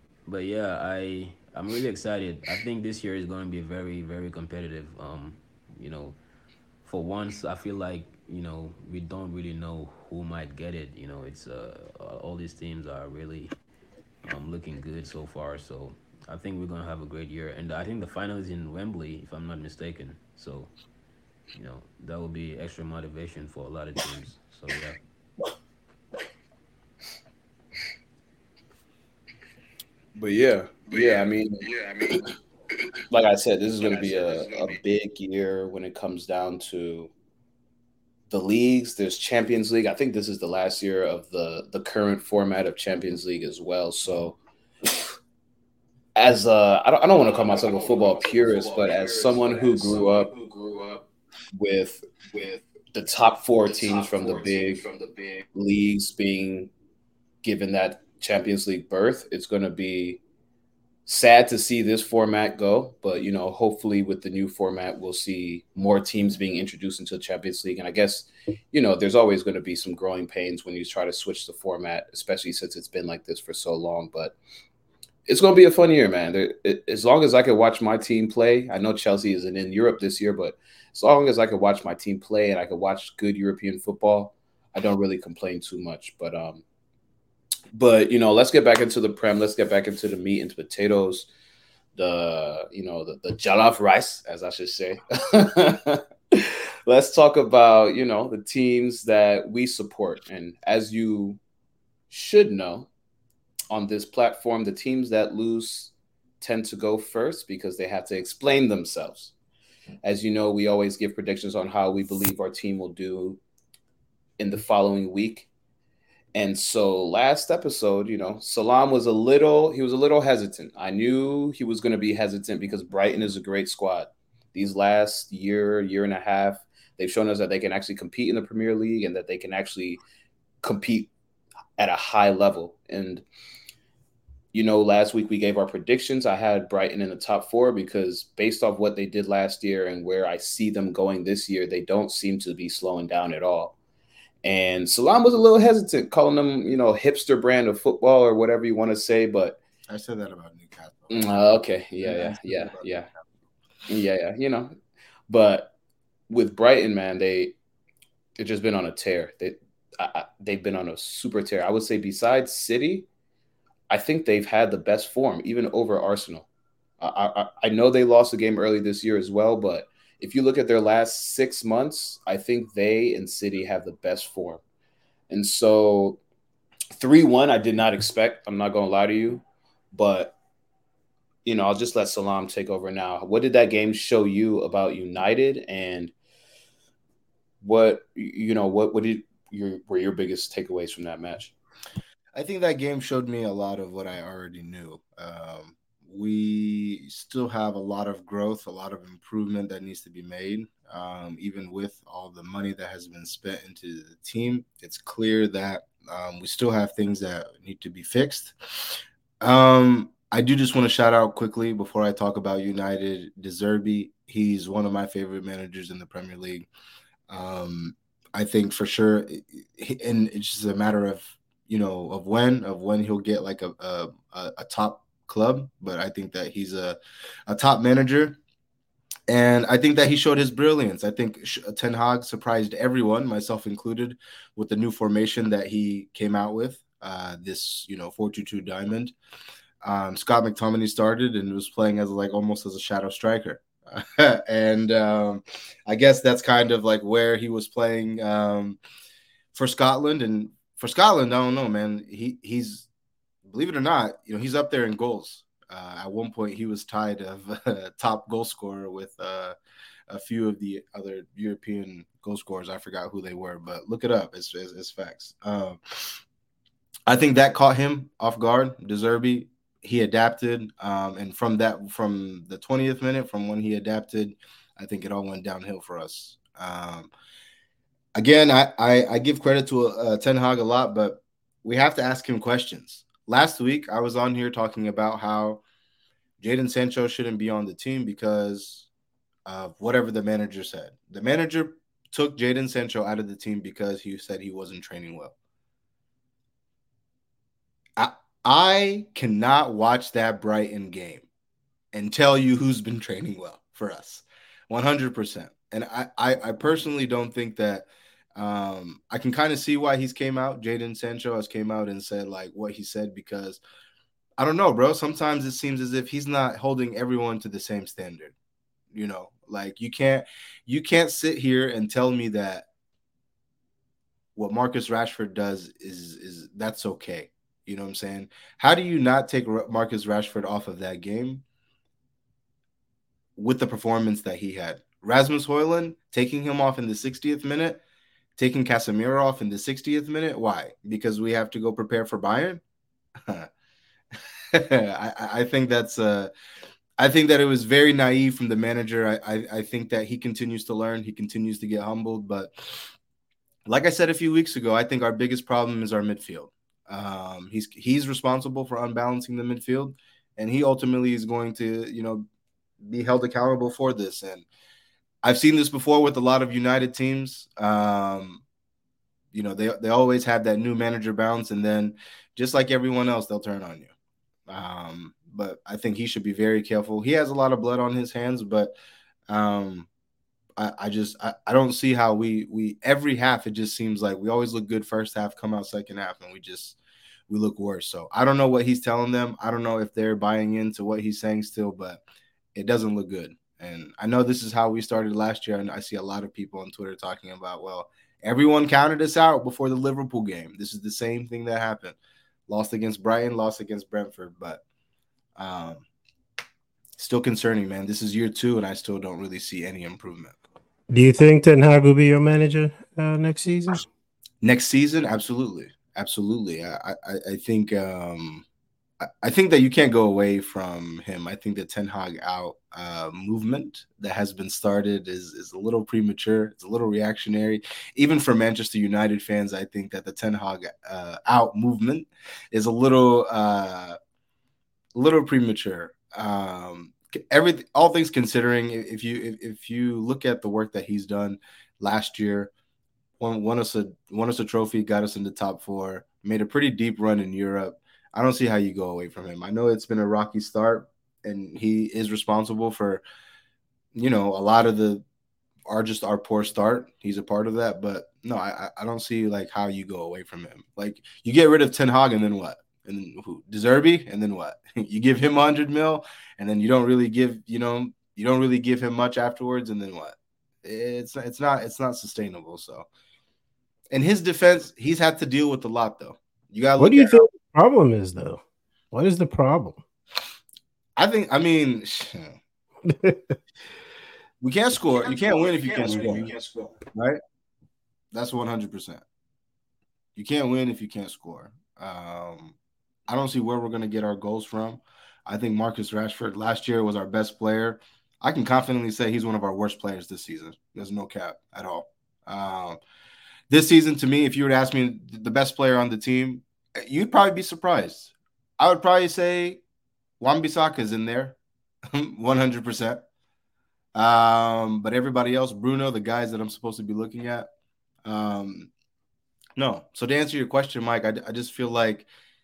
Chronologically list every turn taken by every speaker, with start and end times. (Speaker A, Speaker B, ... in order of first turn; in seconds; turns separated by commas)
Speaker A: 0.3-6.2, Speaker A: 6.8-13.5, Speaker A: 14.2-20.7, Speaker A: 21.5-25.0, Speaker B: 30.2-31.6, Speaker C: 30.9-32.3, Speaker B: 33.1-37.1, Speaker C: 33.8-34.8, Speaker B: 38.3-44.4, Speaker B: 46.2-50.3, Speaker C: 47.1-51.1, Speaker B: 51.5-52.0, Speaker C: 52.3-52.7, Speaker B: 52.9-54.8, Speaker C: 53.6-55.5, Speaker B: 55.5-56.7, Speaker B: 57.4-60.2, Speaker B: 61.1-74.4, Speaker B: 75.3-86.6, Speaker B: 87.7-91.3, Speaker B: 92.0-101.4, Speaker B: 102.1-102.9, Speaker B: 103.7-109.3, Speaker B: 110.0-113.4, Speaker B: 114.4-115.5, Speaker B: 116.3-130.0, Speaker B: 130.6-131.1, Speaker B: 131.8-133.2, Speaker B: 134.5-143.8, Speaker B: 144.4-149.6, Speaker D: 149.9-151.2, Speaker B: 151.1-153.1, Speaker D: 152.0-153.1, Speaker B: 153.9-154.8, Speaker B: 155.3-155.7, Speaker B: 156.3-157.6, Speaker B: 158.4-163.1, Speaker B: 163.9-166.5, Speaker B: 167.0-174.6, Speaker B: 175.3-176.2, Speaker B: 176.9-180.4, Speaker B: 181.4-186.1, Speaker B: 187.6-191.5, Speaker D: 192.3-216.7, Speaker D: 217.3-228.4, Speaker D: 229.3-239.1, Speaker D: 239.8-248.8, Speaker D: 249.5-252.9, Speaker D: 253.4-259.6, Speaker D: 260.1-266.2, Speaker D: 267.1-277.1, Speaker D: 278.1-285.6, Speaker D: 286.4-288.9, Speaker D: 289.5-295.4, Speaker D: 298.0-301.3, Speaker D: 301.9-313.6, Speaker D: 314.4-318.4, Speaker D: 318.9-322.7, Speaker D: 324.4-331.4, Speaker D: 333.4-337.8, Speaker D: 338.4-342.6, Speaker D: 343.2-343.5, Speaker D: 344.5-346.3, Speaker D: 347.0-352.9, Speaker D: 353.7-362.3, Speaker D: 362.8-364.5, Speaker D: 365.2-368.4, Speaker D: 369.3-373.9, Speaker D: 374.5-378.8, Speaker D: 379.3-379.9, Speaker D: 380.6-386.8, Speaker D: 387.3-392.0, Speaker D: 392.6-402.0, Speaker D: 402.5-404.6, Speaker D: 405.4-405.9, Speaker D: 407.0-410.4, Speaker E: 410.9-413.9, Speaker D: 414.4-418.4, Speaker D: 419.0-434.0, Speaker D: 434.9-442.5, Speaker D: 443.2-453.0, Speaker D: 453.9-455.0, Speaker D: 455.7-472.9, Speaker D: 473.9-477.2, Speaker E: 476.8-478.4, Speaker E: 478.9-479.8, Speaker D: 481.0-482.4, Speaker E: 482.9-483.3, Speaker D: 484.4-486.3, Speaker C: 485.0-486.8, Speaker D: 486.9-487.2, Speaker D: 488.1-489.0, Speaker D: 490.1-492.6, Speaker D: 493.1-502.8, Speaker D: 503.5-509.6, Speaker D: 510.2-511.4, Speaker D: 511.9-513.1, Speaker D: 514.0-517.5, Speaker D: 518.0-518.7, Speaker D: 519.6-522.1